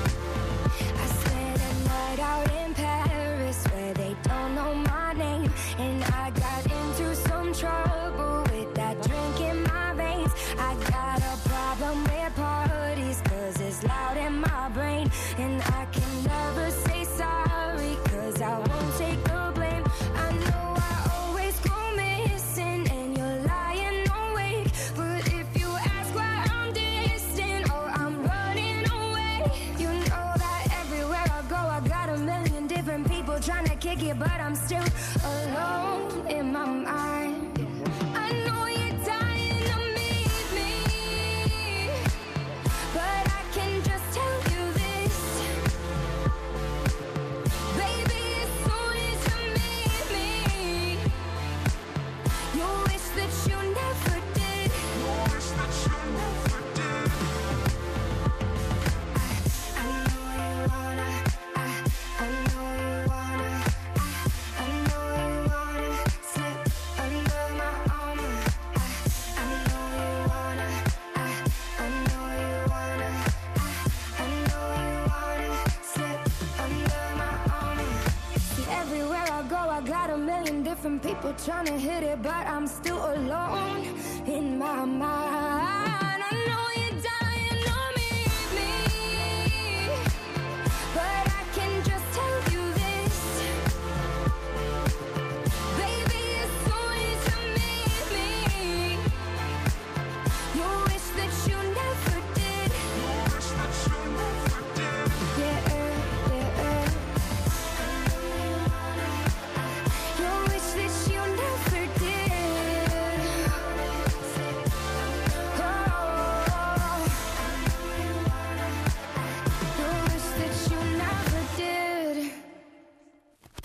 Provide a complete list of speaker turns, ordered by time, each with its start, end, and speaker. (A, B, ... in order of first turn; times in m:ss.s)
0:01.0-0:42.1 A
0:42.9-0:45.4 A
0:47.7-0:51.0 A
0:52.5-0:56.6 A
0:59.2-1:30.1 A
1:30.9-1:33.5 A
1:35.7-1:39.1 A
1:40.5-1:44.4 A
1:45.3-1:47.1 A
1:50.1-1:53.6 A
1:55.5-1:57.2 A
1:59.7-2:02.3 A